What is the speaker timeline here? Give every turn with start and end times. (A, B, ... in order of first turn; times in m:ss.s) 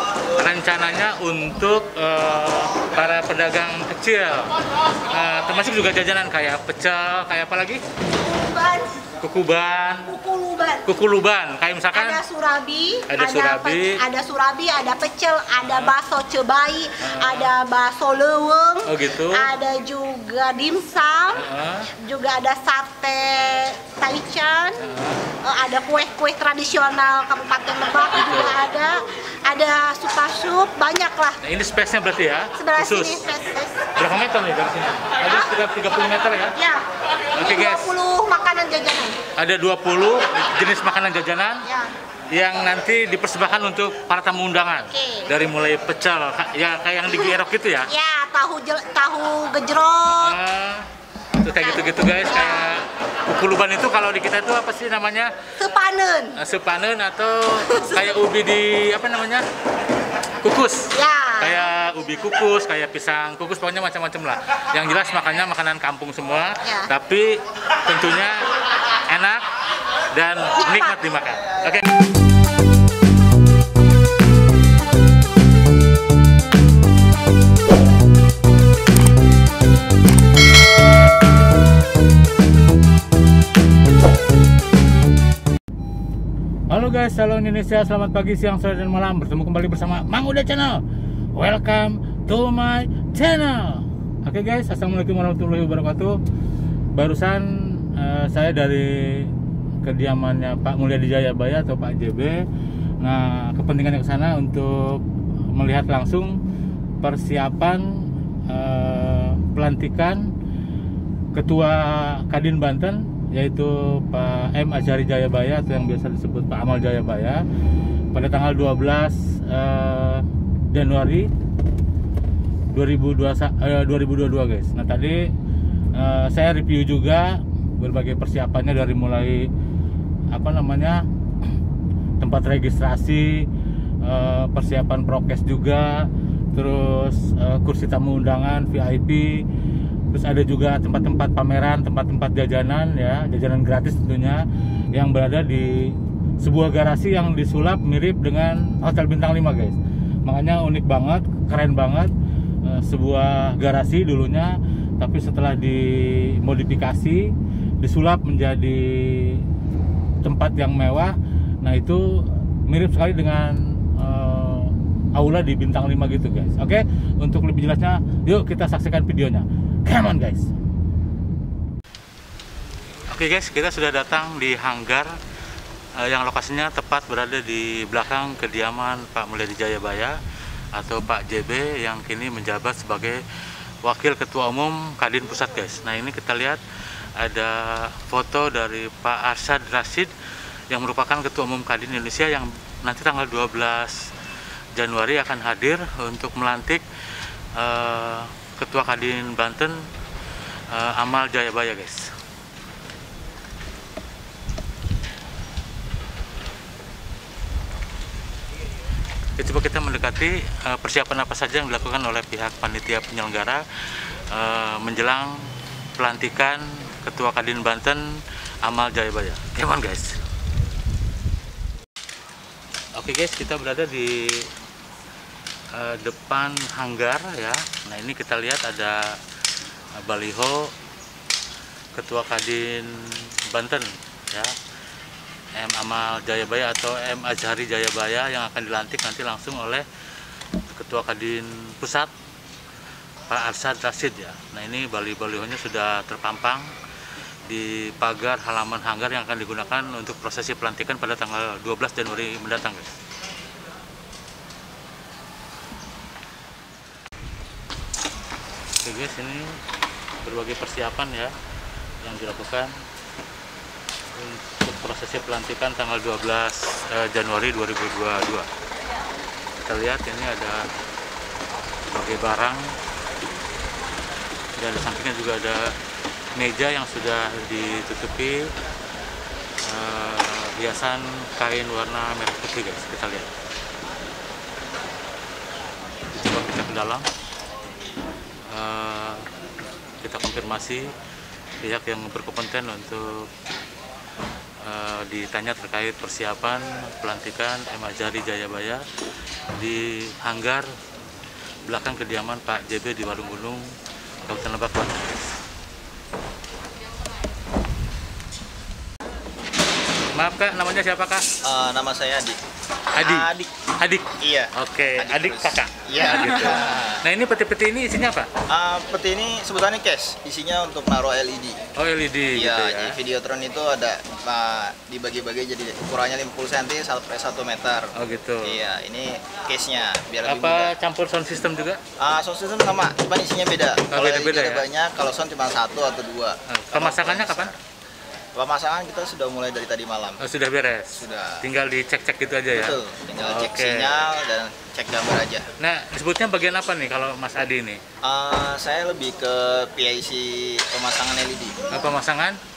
0:00.4-0:04.5 A
0:05.1-0:07.8 A
0:08.2-0:09.0 B
0:09.2-0:10.1 A
0:10.0-0:10.9 B
0:10.8-0:12.2 A
0:11.9-0:21.4 B
0:13.1-0:14.0 A
0:15.6-0:16.0 A
0:17.0-0:17.5 A
0:18.8-0:19.5 A
0:21.3-0:21.9 A
0:22.0-0:24.9 B
0:24.8-0:25.2 A
0:25.4-0:31.4 B
0:28.1-0:28.6 A
0:31.4-0:33.2 A
0:32.6-0:33.9 B
0:34.0-0:36.6 A
0:35.2-0:35.5 B
0:36.5-0:36.8 B
0:37.3-0:37.9 A
0:37.4-0:39.2 B
0:39.4-0:41.6 A
0:41.6-0:41.9 B
0:42.3-0:47.9 A
0:44.9-0:45.3 B
0:47.9-0:50.4 B
0:50.2-0:50.8 A
0:51.4-0:55.3 A
0:51.5-0:52.7 B
0:55.6-0:56.4 B
0:56.4-0:59.4 A
0:57.6-0:58.1 B
1:00.4-1:08.4 A
1:00.9-1:01.6 B
1:06.6-1:06.9 B
1:09.1-1:09.4 A
1:10.1-1:11.9 A
1:10.6-1:11.0 B
1:26.7-1:30.8 A
1:31.4-1:36.2 A
1:36.9-1:39.3 A
1:39.8-1:42.4 A
1:43.0-1:46.4 A
1:47.0-1:50.3 A
1:51.3-1:57.4 A
1:58.1-2:01.3 A
2:02.7-2:05.2 A
2:05.9-2:09.5 A
2:10.3-2:11.0 A
2:12.2-2:13.4 A
2:14.0-2:19.4 A
2:20.1-2:32.1 A
2:32.6-2:39.4 A
2:40.2-2:50.5 A
2:53.1-2:55.1 A
2:56.0-3:00.2 A
3:00.7-3:03.2 A
3:03.8-3:06.6 A
3:07.2-3:10.1 A
3:10.7-3:14.0 A
3:14.8-3:16.8 A
3:17.6-3:19.8 A
3:20.7-3:22.1 A
3:29.4-3:33.6 A
3:34.3-3:35.3 A
3:36.0-3:38.0 A
3:38.6-3:40.2 A
3:42.9-3:44.5 A
3:45.7-3:49.1 A
3:50.0-3:50.7 A
3:51.9-3:52.9 A
3:53.5-3:54.5 A
3:55.6-3:59.8 A
4:00.7-4:02.1 A
4:03.3-4:06.7 A
4:07.5-4:13.0 A
4:18.8-4:19.5 A
4:20.2-4:21.3 A
4:22.0-4:22.7 A
4:24.1-4:28.5 A
4:29.6-4:30.6 A
4:31.9-4:32.6 A
4:34.6-4:35.7 A
4:36.4-4:38.4 A
4:39.6-4:43.3 A
4:46.1-4:47.0 A
4:48.5-4:49.2 A
4:50.0-4:50.9 A
4:51.6-4:53.3 A
4:54.6-4:58.8 A
4:59.5-5:00.7 A
5:01.6-5:03.6 A
5:04.2-5:05.3 A
5:10.1-5:11.2 A
5:11.4-5:12.4 C
5:12.9-5:18.3 A
5:13.0-5:13.5 C
5:14.2-5:17.0 C
5:18.5-5:21.6 C
5:21.8-5:23.0 A
5:22.3-5:27.9 C
5:28.0-5:28.6 A
5:28.4-5:30.7 C
5:30.2-5:31.8 A
5:32.0-5:37.6 C
5:33.9-5:34.7 A
5:36.5-5:37.5 A
5:38.3-5:40.2 C
5:40.2-5:44.1 A
5:40.9-5:41.4 C
5:42.5-5:45.4 C
5:45.6-5:47.8 A
5:48.0-5:51.6 C
5:51.7-5:52.4 A